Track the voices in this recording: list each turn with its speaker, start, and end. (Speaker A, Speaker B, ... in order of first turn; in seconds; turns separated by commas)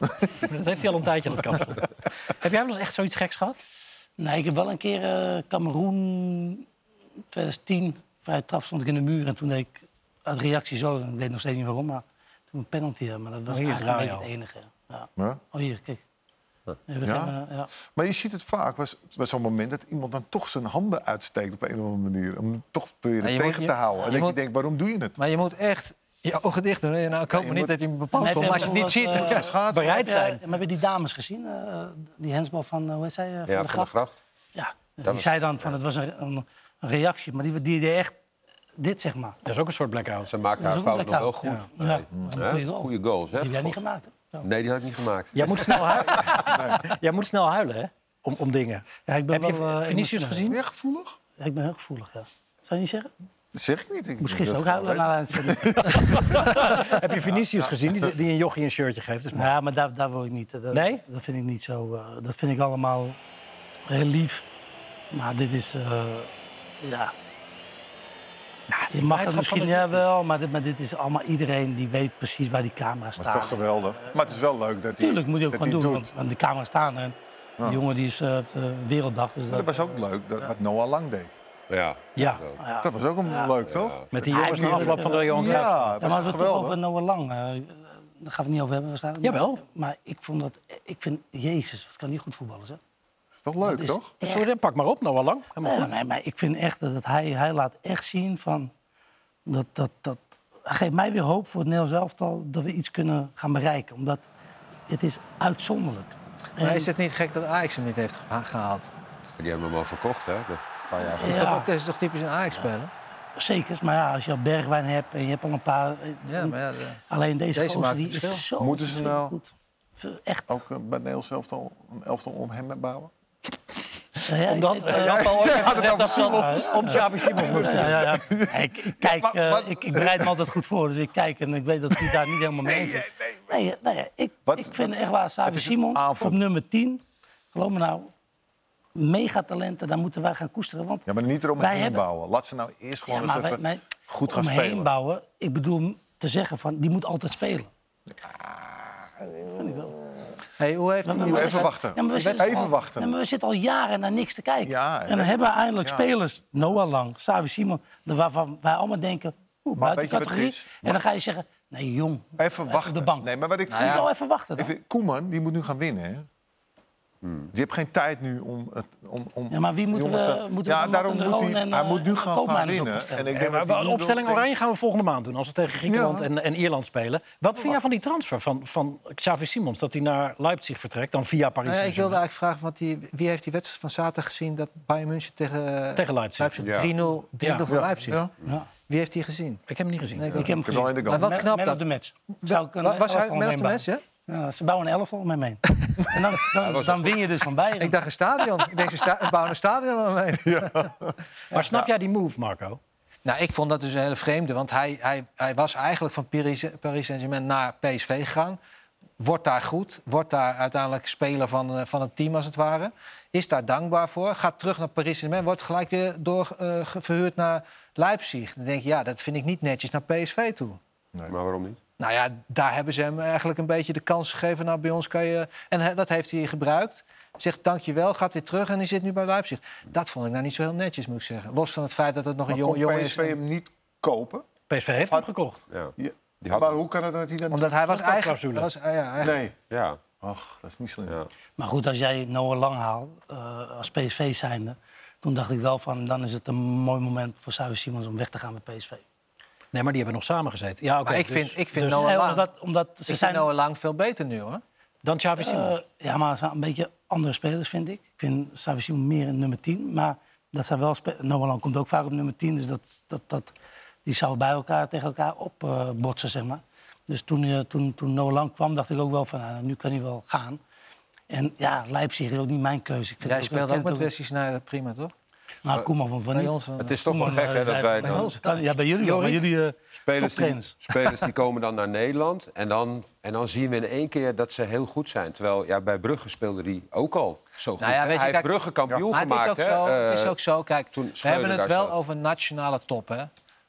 Speaker A: 0.4-3.6, Speaker B: 4.2-6.7, Speaker B: 7.3-16.0, Speaker A: 13.5-14.3, Speaker B: 16.9-17.7, Speaker C: 17.0-25.2, Speaker D: 23.2-24.4, Speaker D: 25.2-29.5, Speaker C: 27.3-30.0, Speaker B: 28.2-33.9, Speaker A: 29.7-30.4, Speaker E: 33.5-34.2, Speaker B: 34.5-38.2, Speaker E: 35.0-35.8, Speaker B: 38.8-39.4, Speaker A: 39.5-40.3, Speaker E: 40.3-43.8, Speaker B: 40.6-44.5, Speaker E: 44.4-45.8, Speaker A: 45.4-50.6, Speaker B: 49.1-50.6, Speaker C: 50.5-51.2, Speaker B: 51.4-53.1, Speaker C: 53.5-56.2, Speaker B: 54.2-56.7, Speaker A: 55.9-59.5, Speaker B: 59.3-63.2, Speaker A: 60.7-61.0, Speaker B: 63.9-64.5, Speaker B: 65.1-67.1, Speaker B: 68.8-74.1, Speaker A: 69.0-70.0, Speaker C: 73.2-76.1, Speaker B: 75.0-80.0, Speaker C: 79.5-81.3, Speaker E: 81.7-82.6, Speaker A: 82.2-82.4, Speaker B: 82.6-83.5, Speaker C: 82.8-86.8, Speaker E: 83.7-84.1, Speaker A: 84.1-85.8, Speaker B: 84.3-92.8, Speaker A: 89.2-89.6, Speaker C: 93.4-94.1, Speaker B: 93.6-94.5, Speaker A: 94.2-96.0, Speaker B: 95.6-98.7, Speaker B: 99.5-104.2, Speaker B: 104.9-106.9, Speaker D: 106.6-108.9, Speaker E: 109.4-111.6, Speaker B: 111.2-111.7, Speaker D: 111.2-112.9, Speaker B: 113.4-116.5, Speaker D: 116.3-117.0, Speaker B: 117.1-120.6, Speaker D: 117.5-118.5, Speaker C: 118.6-119.3, Speaker C: 120.5-123.1, Speaker B: 124.3-137.0, Speaker A: 124.5-127.9, Speaker C: 124.9-130.5, Speaker C: 132.0-133.5, Speaker C: 134.5-134.9, Speaker C: 135.5-136.4, Speaker B: 137.5-138.1, Speaker B: 139.0-141.1, Speaker C: 141.1-144.9, Speaker B: 141.6-142.0, Speaker B: 143.1-147.7, Speaker C: 148.1-150.3, Speaker B: 149.6-149.9, Speaker D: 150.6-152.7, Speaker B: 151.1-164.7, Speaker C: 151.2-153.1, Speaker C: 154.7-156.1, Speaker C: 159.8-161.0, Speaker C: 162.4-166.3, Speaker D: 163.7-164.1, Speaker E: 167.2-167.5, Speaker C: 167.5-174.5, Speaker B: 169.5-173.3, Speaker A: 173.3-182.2, Speaker C: 175.9-176.3, Speaker D: 181.7-188.3, Speaker A: 186.0-186.5, Speaker E: 186.6-186.9, Speaker C: 187.7-188.3, Speaker B: 188.4-188.7, Speaker D: 188.9-189.6, Speaker A: 189.7-190.3, Speaker D: 190.2-194.0, Speaker B: 190.3-198.0, Speaker C: 190.4-191.4, Speaker E: 196.6-197.2, Speaker D: 197.8-200.9, Speaker C: 200.4-201.1, Speaker A: 201.5-202.8, Speaker D: 203.2-208.6, Speaker D: 209.2-220.8, Speaker E: 221.3-221.8, Speaker D: 222.0-233.4, Speaker C: 232.5-234.5, Speaker A: 234.7-235.6, Speaker E: 235.7-236.8, Speaker C: 236.0-237.8, Speaker D: 237.5-239.4, Speaker A: 237.8-238.7, Speaker C: 239.2-239.6, Speaker E: 239.7-240.0, Speaker C: 240.2-241.2, Speaker B: 241.6-249.0, Speaker A: 249.7-252.1, Speaker D: 251.0-252.5, Speaker B: 251.8-253.5, Speaker D: 253.1-254.6, Speaker A: 255.0-255.8, Speaker B: 255.4-263.5, Speaker B: 264.1-270.6, Speaker B: 271.3-274.1, Speaker D: 273.2-275.1, Speaker B: 275.6-281.3, Speaker D: 276.3-277.4, Speaker E: 276.8-278.3, Speaker D: 278.0-278.6, Speaker A: 279.0-279.4, Speaker E: 280.0-290.4, Speaker D: 287.8-293.3, Speaker E: 290.9-292.0